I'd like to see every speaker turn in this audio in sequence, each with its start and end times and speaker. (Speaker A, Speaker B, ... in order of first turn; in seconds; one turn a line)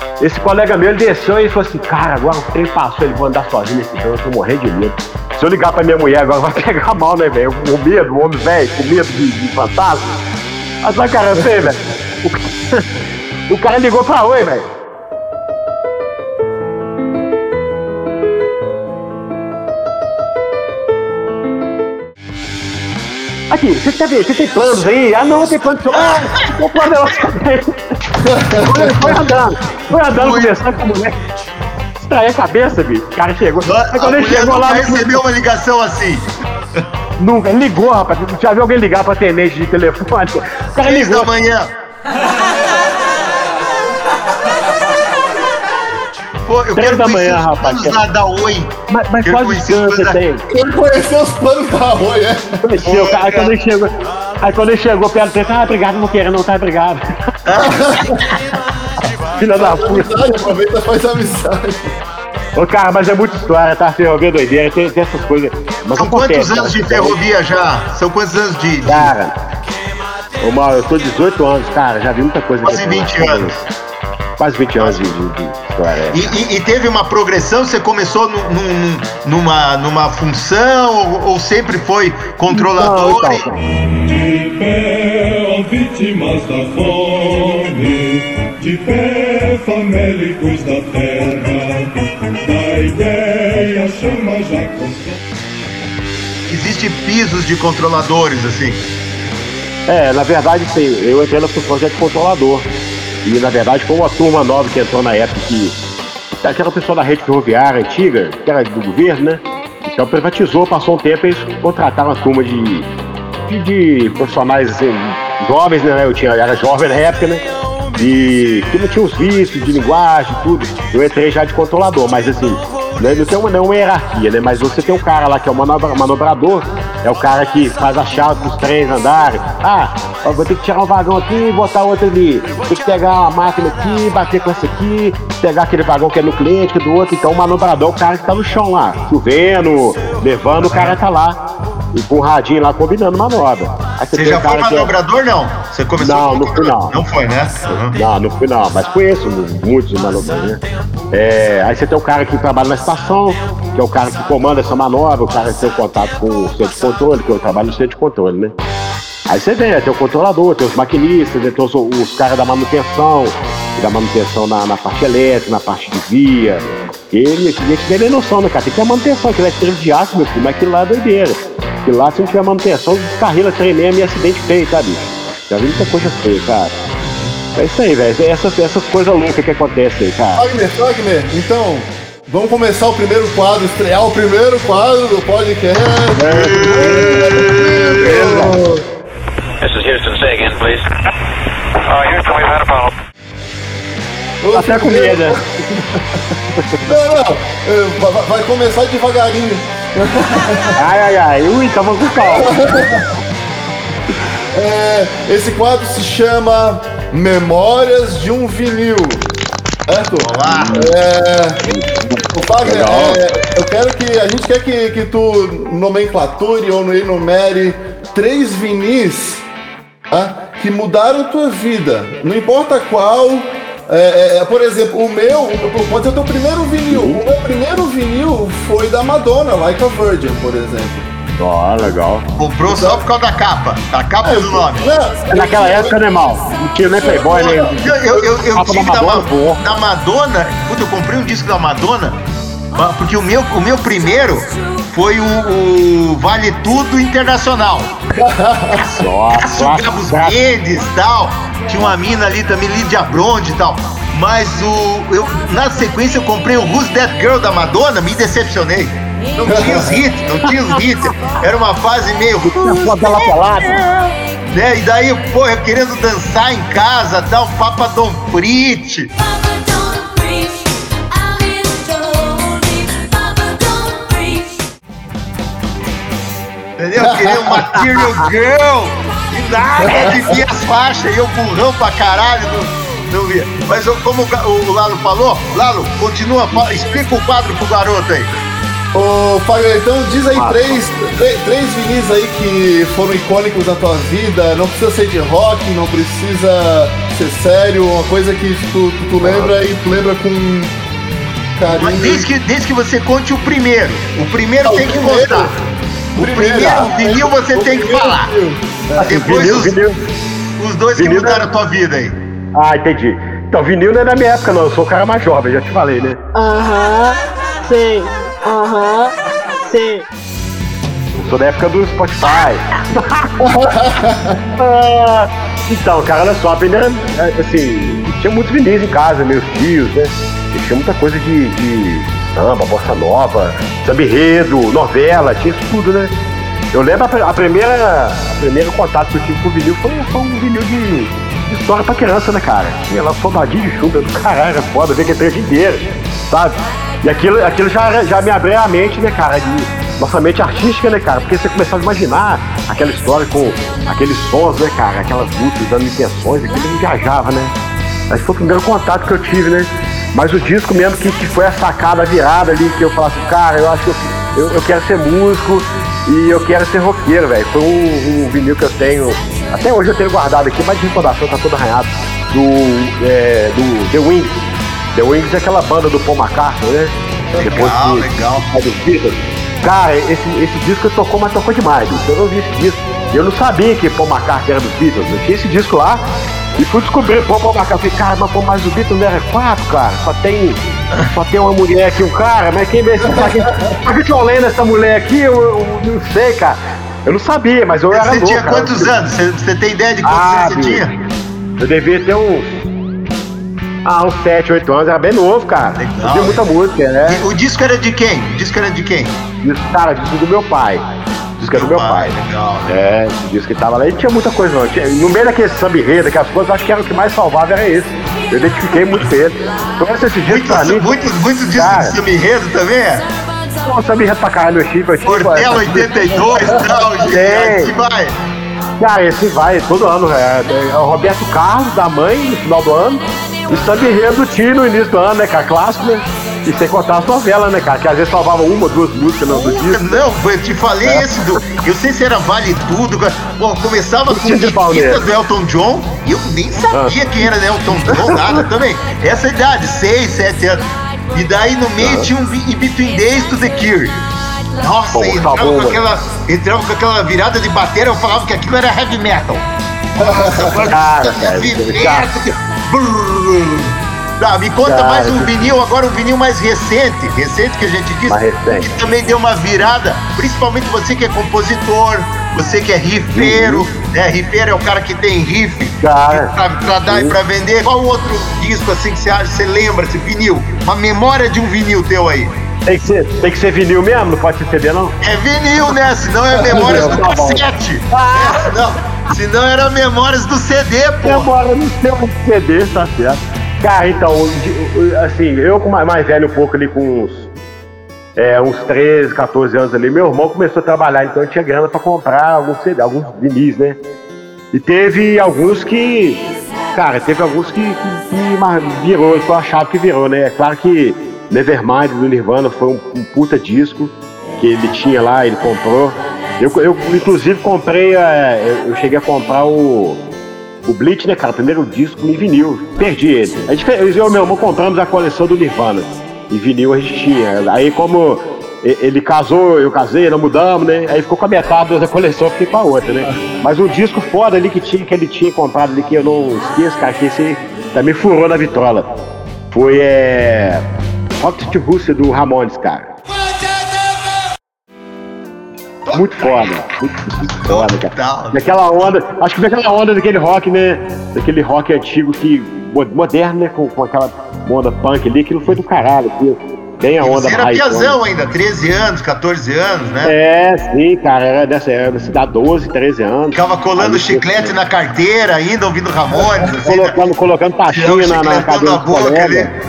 Speaker A: 0.2-10.1
Speaker A: 10.8-12.9
Speaker A: 13.5-14.7
Speaker A: 23.5-27.8
Speaker B: 26.0-26.5
Speaker C: 28.2-29.2
Speaker A: 28.6-31.2
Speaker B: 30.1-30.5
Speaker A: 32.0-35.2
Speaker B: 33.6-36.3
Speaker A: 37.2-41.3
Speaker B: 40.8-41.7
Speaker B: 46.5-48.7
Speaker A: 46.8-48.0
Speaker A: 48.9-50.4
Speaker B: 49.2-50.2
Speaker C: 50.5-52.5
Speaker A: 52.6-53.9
Speaker B: 52.8-53.5
Speaker A: 54.4-57.0
Speaker B: 57.5-58.3
Speaker C: 57.6-58.2
Speaker A: 59.4-60.2
Speaker C: 59.5-61.9
Speaker A: 62.5-67.2
Speaker B: 66.0-69.1
Speaker A: 68.8-69.4
Speaker A: 70.4-73.6
Speaker B: 72.6-73.6
Speaker A: 74.4-76.3
Speaker B: 74.8-75.1
Speaker B: 76.1-83.4
Speaker A: 82.5-83.6
Speaker D: 84.2-91.8
Speaker D: 92.5-95.1
Speaker B: 96.5-98.8
Speaker A: 99.9-102.7
Speaker A: 103.2-105.8
Speaker A: 106.4-112.9
Speaker A: 113.5-117.4
Speaker A: 118.0-141.4
Speaker B: 140.6-141.0
Speaker A: 141.9-144.9
Speaker B: 144.1-148.0
Speaker A: 146.0-146.9
Speaker A: 147.9-158.5
Speaker A: 159.3-176.8
Speaker A: 177.6-180.4
Speaker C: 180.3-188.8
Speaker A: 186.2-187.4
Speaker B: 186.3-188.4
Speaker A: 188.0-188.6
Speaker E: 189.6-190.9
Speaker E: 191.9-192.9
Speaker C: 194.4-195.4
Speaker A: 194.5-195.4
Speaker C: 196.8-200.8
Speaker A: 200.8-202.9
Speaker C: 202.3-203.0
Speaker C: 204.5-209.2
Speaker C: 209.9-211.6
Speaker B: 210.2-210.8
Speaker A: 210.4-210.9
Speaker A: 211.7-213.2
Speaker C: 212.3-219.4
Speaker C: 220.1-231.1
Speaker A: 226.9-227.2
Speaker A: 231.4-232.3
Speaker B: 232.4-234.9
Speaker C: 232.6-233.0
Speaker C: 234.2-236.0
Speaker A: 235.3-239.6
Speaker C: 237.0-237.6
Speaker B: 237.2-242.2
Speaker B: 242.8-247.9
Speaker C: 248.1-248.8
Speaker A: 248.7-250.3
Speaker B: 249.3-263.3
Speaker C: 259.5-260.0
Speaker A: 262.5-264.1
Speaker B: 264.5-269.1
Speaker B: 276.8-288.3
Speaker C: 277.0-277.5
Speaker C: 279.8-280.4
Speaker C: 288.9-300.7
Speaker A: 290.3-290.8
Speaker A: 299.2-299.5
Speaker C: 301.6-302.3
Speaker B: 301.7-305.5
Speaker C: 304.6-305.5
Speaker C: 306.1-309.5
Speaker B: 306.2-308.3
Speaker A: 309.0-310.0
Speaker B: 309.1-309.8
Speaker B: 310.6-312.2
Speaker A: 311.0-311.5
Speaker A: 312.5-316.2
Speaker A: 321.1-323.3
Speaker C: 323.4-324.4
Speaker A: 324.6-336.1
Speaker A: 336.7-357.5
Speaker A: 358.1-386.1
Speaker B: 377.4-378.5
Speaker A: 386.6-398.9
Speaker C: 393.0-393.8
Speaker B: 397.9-400.9
Speaker A: 400.0-400.9
Speaker A: 401.6-402.7
Speaker A: 403.8-407.2
Speaker B: 405.8-406.4
Speaker B: 407.1-409.2
Speaker A: 409.4-410.9
Speaker A: 411.4-412.1
Speaker B: 411.5-412.7
Speaker A: 412.7-420.9
Speaker B: 420.3-423.0
Speaker A: 421.5-422.0
Speaker A: 423.6-426.1
Speaker B: 425.1-428.2
Speaker C: 426.3-426.6
Speaker A: 427.0-427.7
Speaker A: 428.8-440.0
Speaker B: 439.3-454.0
Speaker A: 444.1-445.0
Speaker A: 447.8-448.4
Speaker A: 451.8-452.1
Speaker B: 454.6-459.4
Speaker A: 454.9-455.8
Speaker C: 460.0-460.7
Speaker B: 460.0-482.3
Speaker A: 460.7-462.1
Speaker A: 464.7-465.5
Speaker A: 468.1-468.7
Speaker A: 473.1-473.7
Speaker A: 475.8-476.3
Speaker A: 476.9-477.2
Speaker A: 482.7-484.9
Speaker B: 485.0-491.3
Speaker A: 486.4-488.5
Speaker C: 486.4-487.0
Speaker A: 491.0-497.3
Speaker A: 498.2-503.8
Speaker A: 504.5-506.2
Speaker A: 506.7-520.0
Speaker A: 520.7-538.9
Speaker A: 539.5-540.6
Speaker A: 541.2-542.9
Speaker B: 545.9-546.5
Speaker A: 545.9-558.0
Speaker B: 547.4-548.9
Speaker B: 557.0-560.1
Speaker A: 560.0-564.5
Speaker B: 563.3-567.0
Speaker A: 566.6-569.5
Speaker B: 567.7-569.5